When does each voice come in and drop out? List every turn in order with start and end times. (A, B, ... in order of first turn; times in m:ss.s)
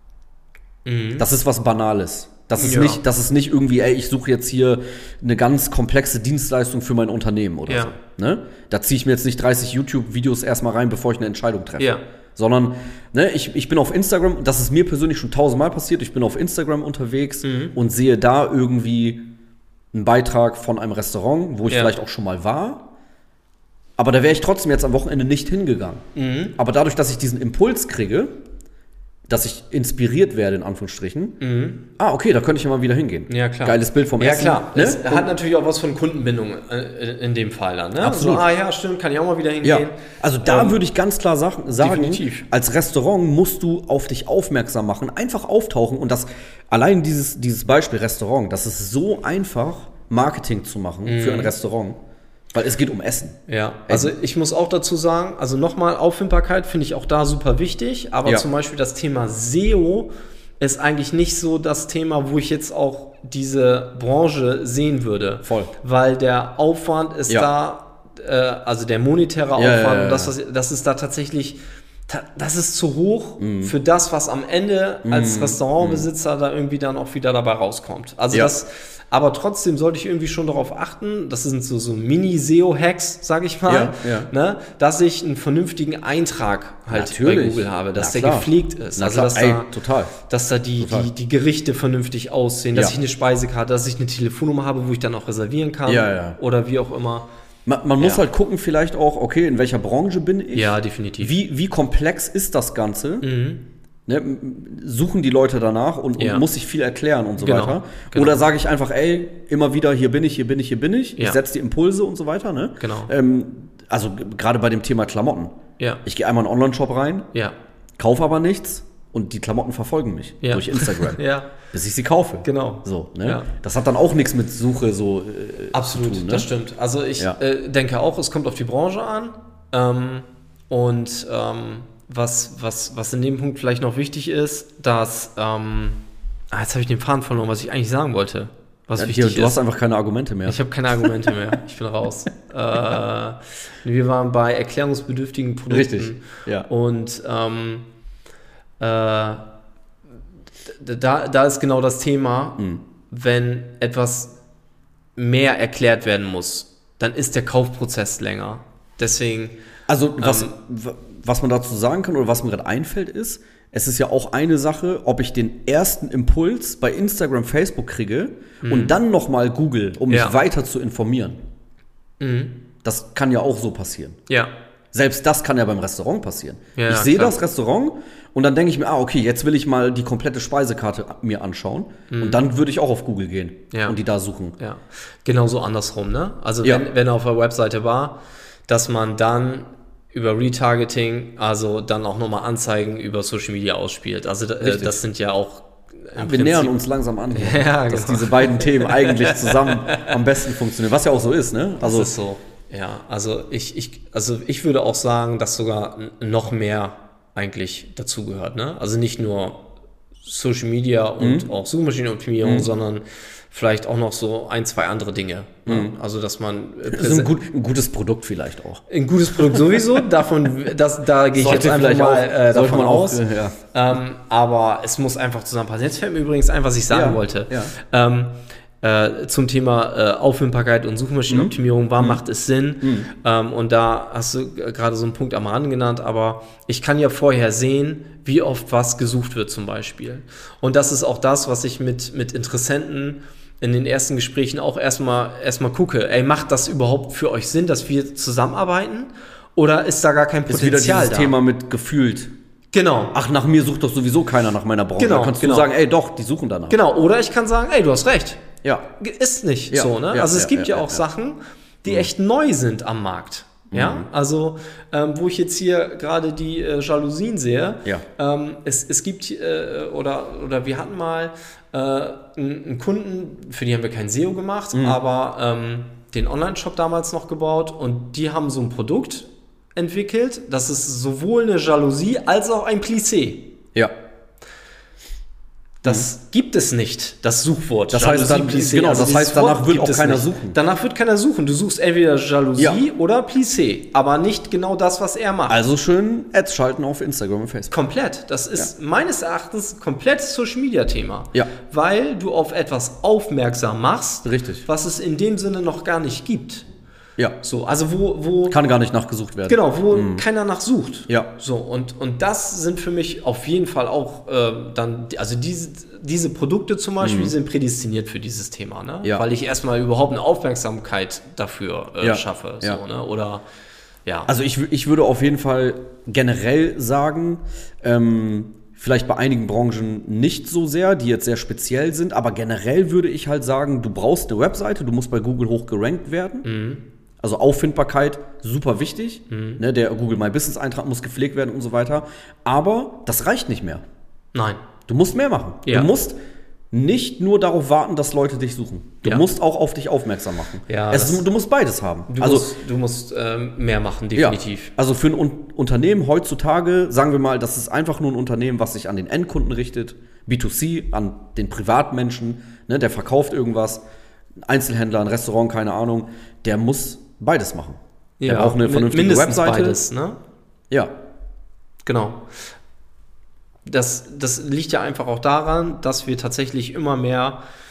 0:00.8-0:01.3 A
0:01.2-0:19.2 B
0:02.6-0:03.0 A
0:07.7-0:07.9 A
0:17.4-0:17.7 A
0:19.9-0:22.9 B
0:21.7-0:21.9 A
0:24.0-0:26.0 B
0:26.2-0:26.6 A
0:26.6-0:28.3 B
0:29.3-0:31.4 B
0:31.4-0:31.8 A
0:32.0-0:35.3 B
0:33.3-0:40.8 A
0:38.0-0:38.5 B
0:39.6-0:52.0 B
0:41.8-0:42.4 A
0:51.0-0:51.5 A
0:52.5-0:53.4 B
0:53.5-1:29.7 A
1:05.4-1:05.7 B
1:09.6-1:10.3 B
1:13.4-1:13.7 B
1:15.0-1:16.1 B
1:23.7-1:24.3 B
1:26.9-1:30.1 B
1:30.3-1:37.2 A
1:30.8-1:31.1 B
1:35.8-1:36.4 B
1:37.6-1:43.3 B
1:40.5-1:41.3 A
1:43.2-1:43.6 A
1:44.1-1:57.3 B
1:46.2-1:46.4 A
1:47.4-1:48.4 A
1:52.8-1:53.1 A
1:58.0-2:06.5 B
2:00.4-2:01.5 A
2:02.4-2:03.5 A
2:05.7-2:16.0 A
2:16.5-2:19.6 A
2:19.0-2:21.3 B
2:20.4-2:27.8 A
2:25.7-2:26.7 B
2:28.8-2:29.4 A
2:30.7-2:34.3 A
2:35.2-2:39.5 A
2:39.9-2:51.4 B
2:40.2-2:40.5 A
2:48.6-2:49.0 A
2:50.1-2:50.4 A
2:52.2-2:52.6 A
2:52.8-2:54.2 B
2:54.9-3:04.6 B
2:56.7-2:57.4 A
3:02.1-3:02.4 A
3:03.7-3:04.0 A
3:04.6-3:16.8 A
3:14.6-3:15.0 B
3:16.2-3:22.1 B
3:17.3-3:20.1 A
3:21.8-3:29.6 A
3:30.2-3:37.3 A
3:31.2-3:31.5 B
3:32.4-3:32.7 B
3:35.7-3:35.9 B
3:36.9-3:38.8 B
3:38.9-4:11.4 A
3:39.4-3:40.0 B
3:41.3-3:43.5 B
3:46.9-3:47.7 B
3:51.3-3:52.2 B
3:52.8-3:53.1 B
4:10.5-4:12.3 B
4:12.7-4:13.2 A
4:13.1-4:16.8 B
4:15.0-4:15.7 A
4:16.7-4:18.4 A
4:19.0-4:43.5 A
4:19.7-4:21.0 B
4:23.7-4:24.1 B
4:34.7-4:35.0 B
4:45.8-4:55.6 A
4:47.9-4:50.6 B
4:55.5-4:57.7 B
4:57.7-5:06.6 A
5:04.2-5:04.6 B
5:07.4-5:08.6 A
5:08.5-5:10.2 B
5:09.4-5:23.4 A
5:17.0-5:17.3 B
5:22.0-5:22.8 B
5:24.3-5:36.4 B
5:36.4-5:36.8 A
5:37.2-5:43.8 B
5:39.3-5:39.6 A
5:44.3-5:44.6 A
5:44.9-5:46.2 B
5:45.6-5:45.9 A
5:46.7-5:52.5 B
5:50.7-5:51.2 A
5:52.1-5:54.7 A
5:54.1-6:03.8 B
6:04.4-6:09.8 B
6:08.2-6:10.2 A
6:11.8-6:12.3 A
6:13.6-6:17.4 A